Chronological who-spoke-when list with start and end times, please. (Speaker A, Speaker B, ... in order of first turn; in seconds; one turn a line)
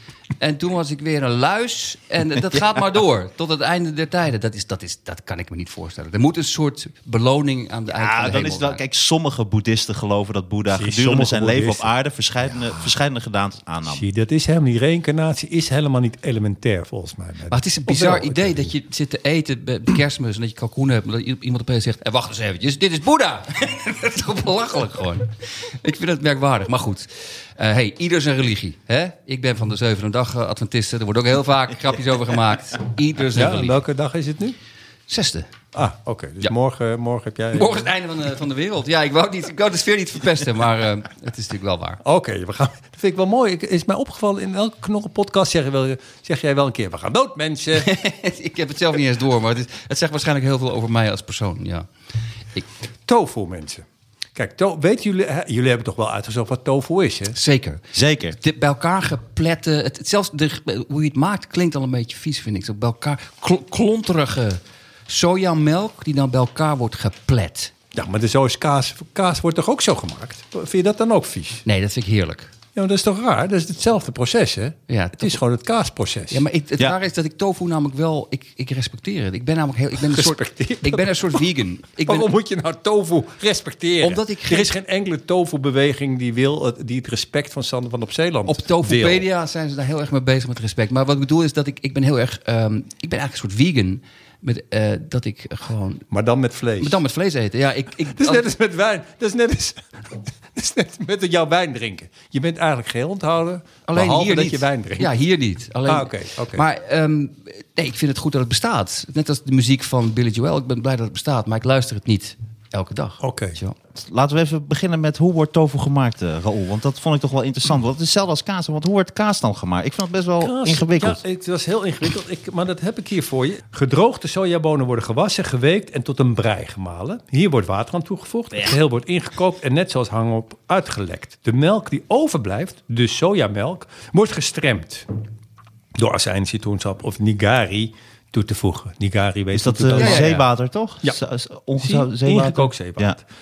Speaker A: 0.4-8.8
Speaker B: 7.9-14.0
Speaker C: 10.7-11.9
Speaker C: 13.8-18.7
Speaker A: 17.5-33.8
Speaker C: 33.3-34.5
Speaker A: 35.1-35.5
Speaker C: 35.7-37.9
Speaker A: 37.5-42.0
Speaker C: 42.0-47.9
Speaker A: 47.8-51.9
Speaker C: 53.0-53.8
Speaker C: 54.3-57.4
Speaker A: 57.3-67.7
Speaker B: 57.9-58.4
Speaker C: 67.9-71.6
Speaker A: 71.6-72.5
Speaker C: 72.7-76.4
Speaker A: 74.9-75.4
Speaker A: 76.3-82.3
Speaker C: 80.0-81.4
Speaker C: 82.0-89.2
Speaker A: 84.0-84.8
Speaker A: 88.5-96.0
Speaker C: 96.1-97.0
Speaker A: 96.8-98.5
Speaker C: 98.1-105.1
Speaker A: 103.9-113.8
Speaker C: 105.8-106.6
Speaker C: 113.2-113.6
Speaker B: 113.9-121.2
Speaker C: 120.4-135.1
Speaker C: 135.9-140.4
Speaker B: 139.5-143.2
Speaker A: 139.9-140.4
Speaker C: 141.8-143.2